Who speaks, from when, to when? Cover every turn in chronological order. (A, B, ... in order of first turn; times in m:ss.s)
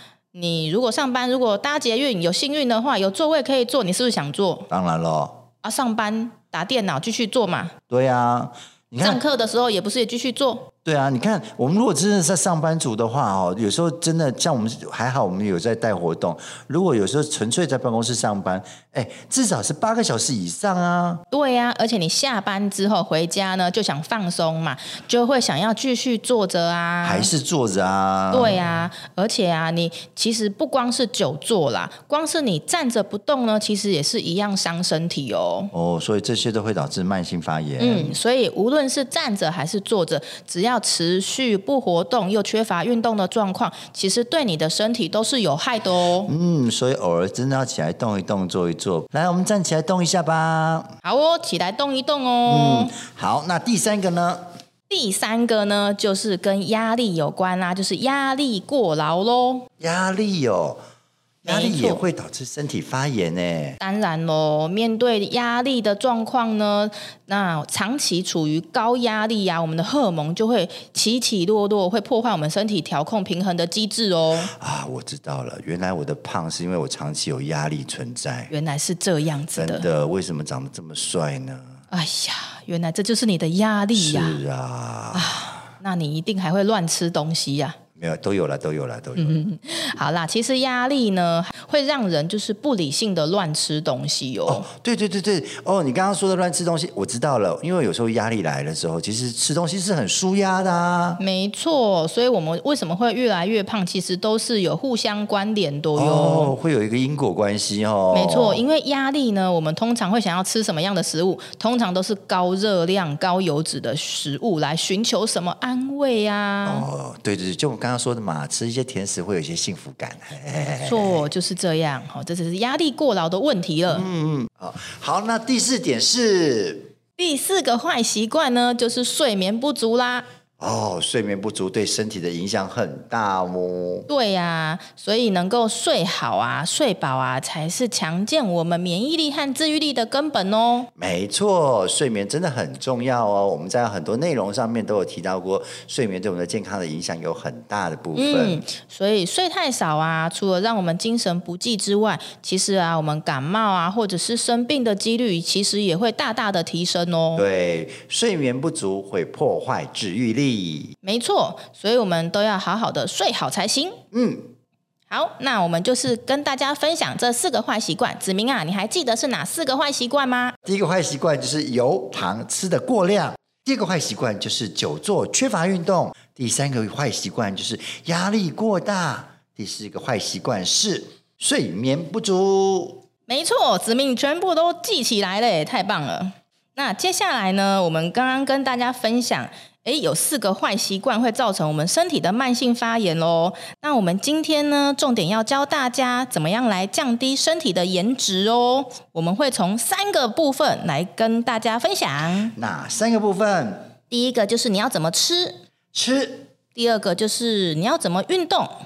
0:00.3-0:04.7 A
0:04.7-0:05.4 B
0:05.6-0:07.7 A
0:07.9-0:09.2 B
0:09.0-0:10.7 A
0:10.8-0:21.2 B
0:21.3-0:27.3 A
0:27.0-0:28.6 B
0:28.3-0:35.7 A
0:35.7-0:38.2 B
0:37.8-0:46.3 A
0:46.2-0:50.9 B
0:51.0-0:52.9 A
0:52.4-0:54.4 B
0:54.9-0:59.7 A
0:59.8-1:00.8 B
1:01.4-1:03.8 B
1:01.4-1:02.0 A
1:03.8-1:14.5 A
1:14.5-1:18.5 B
1:18.5-1:19.8 A
1:19.6-1:21.8 B
1:21.9-1:24.4 A
1:24.0-1:25.6 B
1:25.1-1:27.8 A
1:28.0-1:29.4 B
1:29.2-1:34.6 A
1:34.5-1:41.2 B
1:41.2-1:46.5 A
1:45.9-1:48.6 B
1:48.1-1:56.9 A
1:56.6-2:01.2 B
2:00.8-2:04.0 A
2:03.9-2:06.9 B
2:07.2-2:10.2 A
2:10.6-2:14.1 B
2:14.1-2:20.9 A
2:21.0-2:28.6 B
2:28.1-2:37.4 A
2:37.4-2:40.9 B
2:41.0-2:44.0 A
2:44.1-2:44.5 B
2:45.1-2:50.6 A
2:50.6-3:03.0 B
3:03.3-3:22.5 A
3:22.6-3:23.9 B
3:24.1-3:25.6 A
3:25.9-3:26.5 B
3:26.7-3:28.7 A